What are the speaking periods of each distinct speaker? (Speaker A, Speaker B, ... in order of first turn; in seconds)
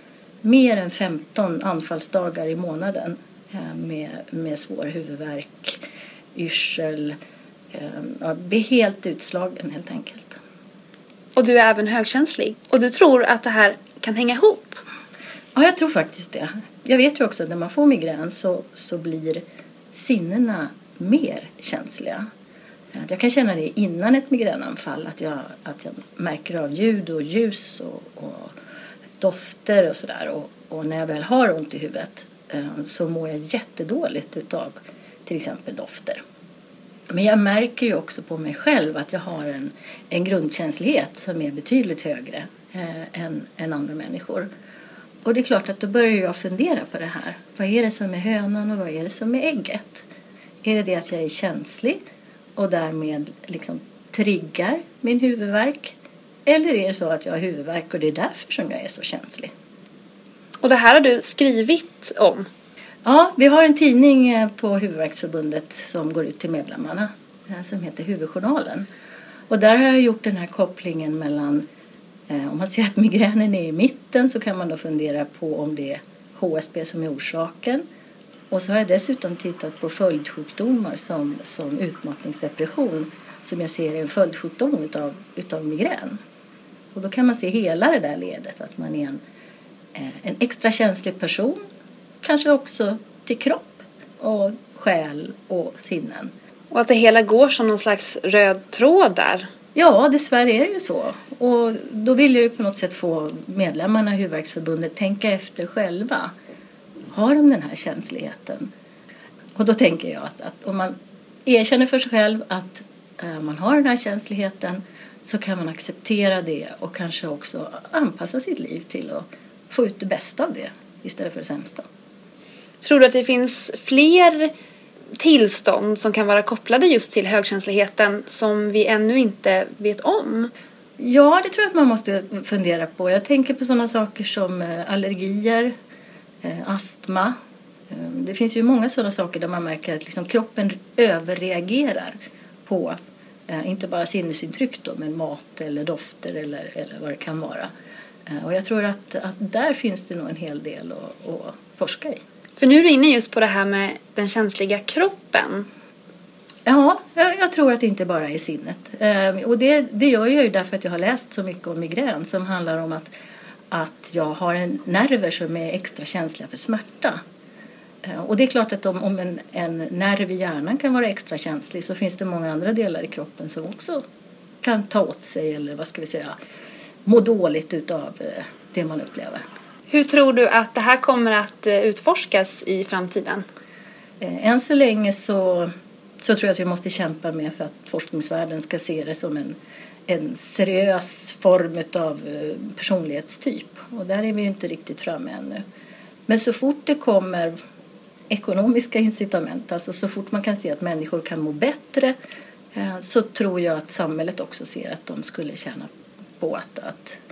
Speaker A: 0.4-5.8, 6.3-7.2, 7.7-10.4, 15.6-19.4, 19.9-22.2, 23.0-28.5, 29.2-34.7, 35.3-36.2, 37.1-44.5, 45.2-50.0, 50.6-52.0, 52.6-59.5, 63.0-68.9, 69.5-71.7, 72.3-77.8, 78.5-86.2, 86.9-89.2, 90.0-91.6, 92.2-96.3, 99.8-106.3, 107.1-108.7, 109.6-121.8, 131.0-135.7, 136.4-137.3, 137.9-143.0, 143.5-147.7, 148.3-152.2, 156.7-163.1, 163.7-167.2, 168.1-174.0, 174.6-176.3, 177.1-179.4, 184.2-185.7, 186.2-189.6, 190.1-195.6, 196.3-197.5, 198.3-202.1, 202.8-207.2
Speaker B: 11.4-14.8, 60.6-62.5, 96.7-99.5, 122.8-124.5, 125.2-130.5, 152.6-155.7, 179.9-183.5